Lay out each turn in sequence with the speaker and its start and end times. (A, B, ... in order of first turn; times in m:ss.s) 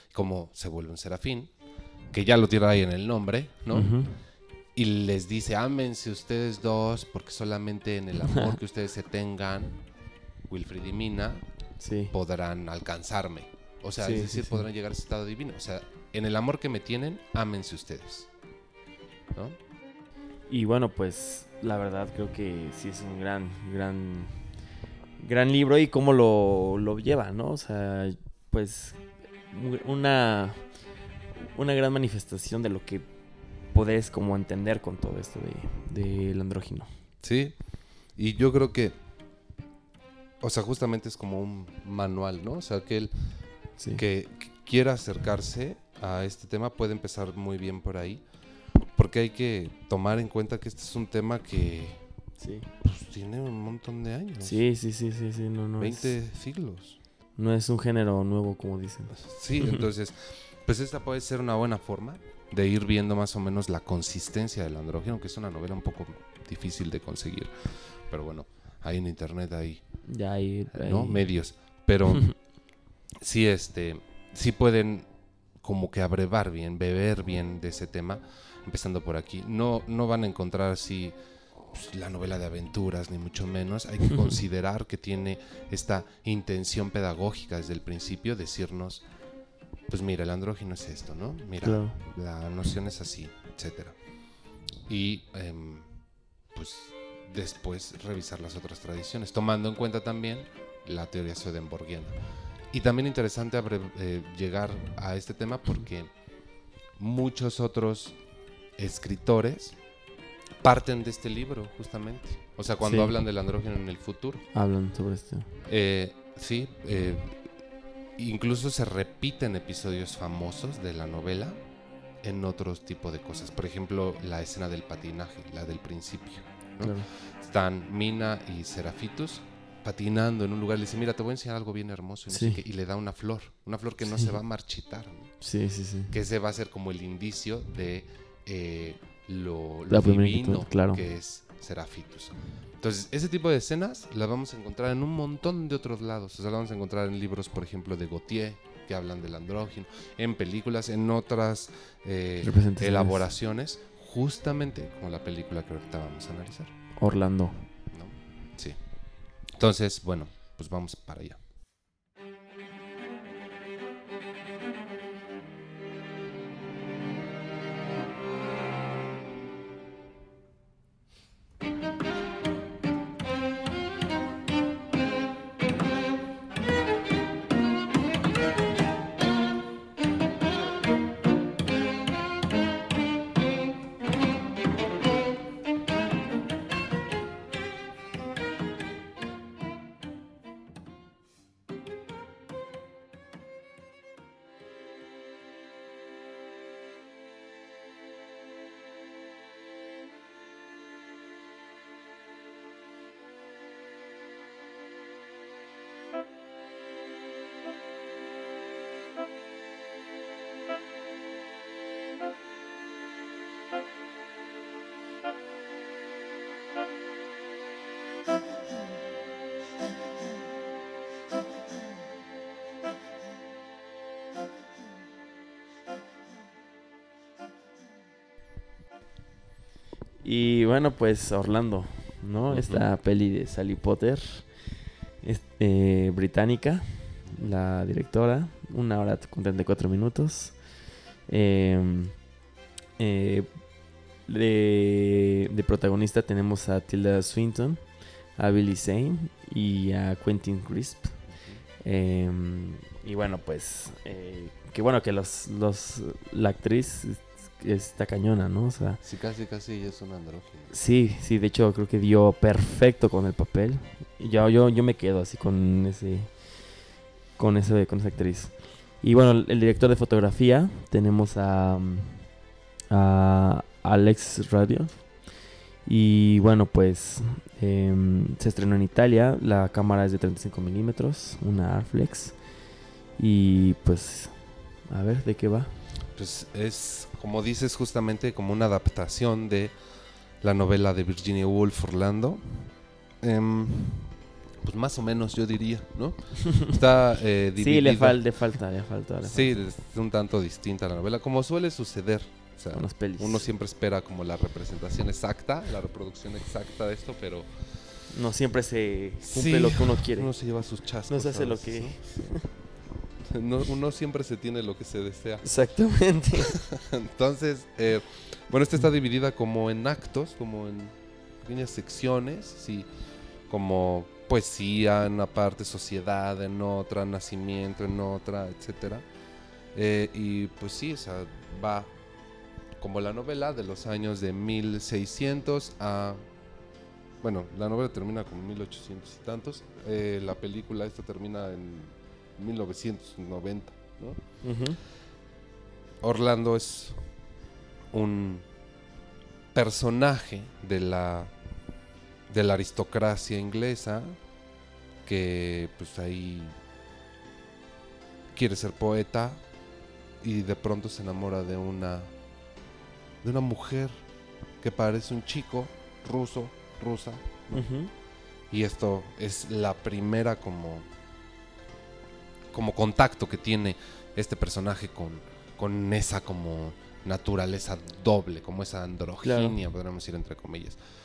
0:00.1-0:01.5 A
0:02.1-0:03.9 A
0:03.7-0:04.2 B
0:04.7-0:09.8 A
0:10.5-0:11.4 A
0:11.8-0:12.1 B
0:12.1-0:18.3 A
0:14.0-0:14.6 B
0:20.5-0:24.4 B
0:25.2-0:30.7 B
0:31.5-0:33.1 B
0:33.7-0:36.9 B
0:37.2-0:37.6 A
0:38.1-0:39.0 A
0:40.4-0:43.1 A
0:43.8-0:44.0 B
0:44.0-0:48.2 A
0:48.9-0:52.0 A
0:52.4-0:52.7 B
0:52.8-0:54.6 A
0:54.4-0:56.1 B
0:55.8-0:57.0 A
0:57.4-0:59.8 B
0:59.1-1:09.8 A
1:10.0-1:11.3 B
1:10.7-1:12.3 A
1:13.2-1:15.1 A
1:15.6-1:21.2 A
1:21.7-1:29.0 A
1:29.9-1:34.0 A
1:31.6-1:32.0 B
1:34.8-1:36.0 A
1:36.5-1:42.2 A
1:42.7-1:46.1 A
1:47.0-1:48.2 A
1:48.8-1:49.8 A
1:50.6-1:54.4 A
1:52.8-1:53.1 B
1:54.5-1:55.5 B
1:55.6-1:57.4 A
1:58.2-2:01.6 A
2:02.2-2:15.3 A
2:06.8-2:07.1 B
2:12.3-2:12.6 B
2:14.0-2:14.4 B
2:15.4-2:16.1 B
2:16.1-2:36.7 A
2:19.9-2:21.0 B
2:32.4-2:33.2 B
2:37.0-2:37.7 B
2:37.9-2:38.8 A
2:39.4-2:41.4 A
3:50.2-3:54.5 B
3:52.5-3:52.9 A
3:55.2-4:00.6 B
4:01.3-4:02.2 B
4:03.0-4:03.5 B
4:04.2-4:07.8 B
4:08.4-4:11.2 B
4:11.3-4:11.6 A
4:11.8-4:19.0 B
4:19.0-4:20.7 A
4:20.7-4:26.3 B
4:27.4-4:32.3 B
4:32.9-4:35.1 B
4:35.8-4:42.4 B
4:43.2-4:45.8 B
4:46.1-4:49.7 A
4:50.4-4:58.2 A
4:57.6-4:59.6 B
4:59.2-5:07.5 A
5:02.7-5:03.4 B
5:08.1-5:10.3 B
5:09.2-5:12.4 A
5:11.1-5:12.5 B
5:13.2-5:15.4 A
5:15.4-5:16.6 B
5:16.4-5:22.9 A
5:23.5-5:29.0 A
5:29.7-5:31.9 A
5:32.8-5:36.2 A
5:37.2-5:44.2 A
5:44.4-5:44.8 B
5:46.0-5:47.1 A
5:47.9-5:48.4 A
5:49.5-5:51.3 A
5:52.3-5:54.2 A
5:55.0-5:56.5 A
5:58.3-5:59.4 A
6:00.2-6:02.1 A
6:03.2-6:04.0 A
6:04.6-6:07.7 A
6:07.5-6:07.9 B
6:08.5-6:10.9 A
6:12.5-6:20.8 A
6:19.2-6:19.6 B